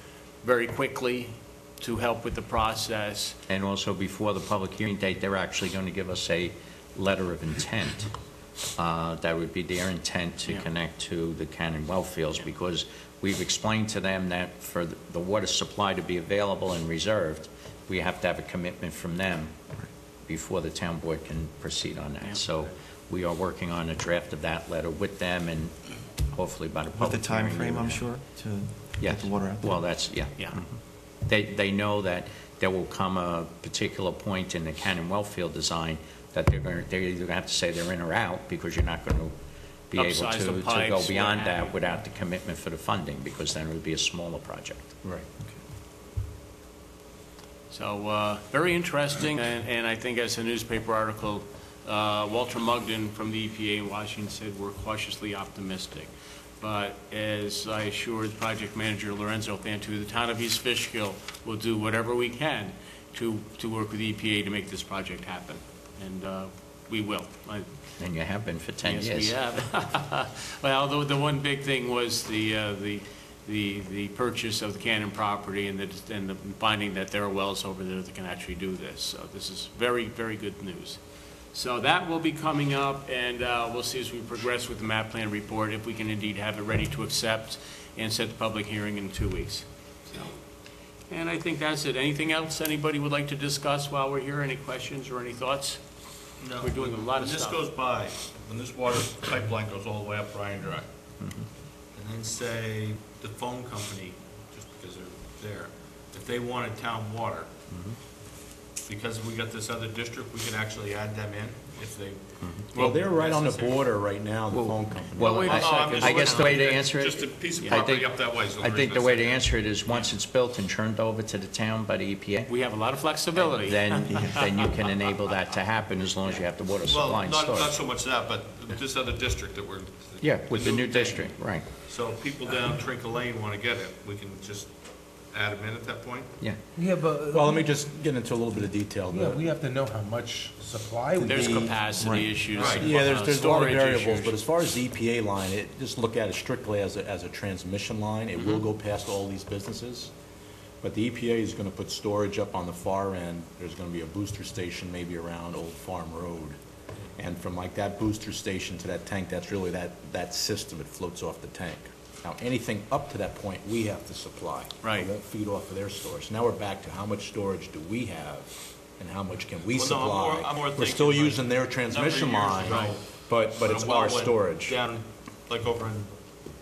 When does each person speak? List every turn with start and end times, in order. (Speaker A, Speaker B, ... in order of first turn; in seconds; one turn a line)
Speaker A: 0.4-3.4
Speaker B: 3.5-8.1
Speaker B: 8.8-19.5
Speaker B: 20.3-25.7
Speaker B: 26.3-28.1
Speaker C: 27.0-29.9
Speaker B: 28.9-39.3
Speaker B: 39.9-44.9
Speaker A: 39.9-41.8
Speaker D: 45.0-45.3
Speaker A: 47.7-56.1
Speaker A: 56.6-67.7
Speaker B: 68.0-69.3
Speaker A: 68.8-81.0
Speaker A: 81.5-89.7
Speaker A: 91.1-95.8
Speaker E: 96.4-100.8
Speaker A: 96.6-97.6
Speaker E: 101.9-107.5
Speaker B: 107.7-108.0
Speaker E: 108.9-113.8
Speaker B: 112.4-112.7
Speaker D: 112.7-115.8
Speaker B: 114.5-122.6
Speaker A: 115.2-116.6
Speaker E: 115.5-120.1
Speaker A: 117.6-117.8
Speaker A: 122.5-124.5
Speaker B: 123.3-127.8
Speaker E: 126.8-131.3
Speaker B: 130.2-131.7
Speaker E: 131.8-134.7
Speaker E: 135.3-136.3
Speaker F: 136.8-137.7
Speaker D: 137.3-139.4
Speaker F: 139.1-142.0
Speaker A: 141.2-144.4
Speaker C: 142.0-142.4
Speaker E: 142.5-142.9
Speaker D: 142.6-150.1
Speaker D: 150.8-156.6
Speaker D: 157.2-174.8
Speaker A: 164.8-165.1
Speaker E: 169.7-173.0
Speaker A: 172.7-172.9
Speaker E: 173.6-176.1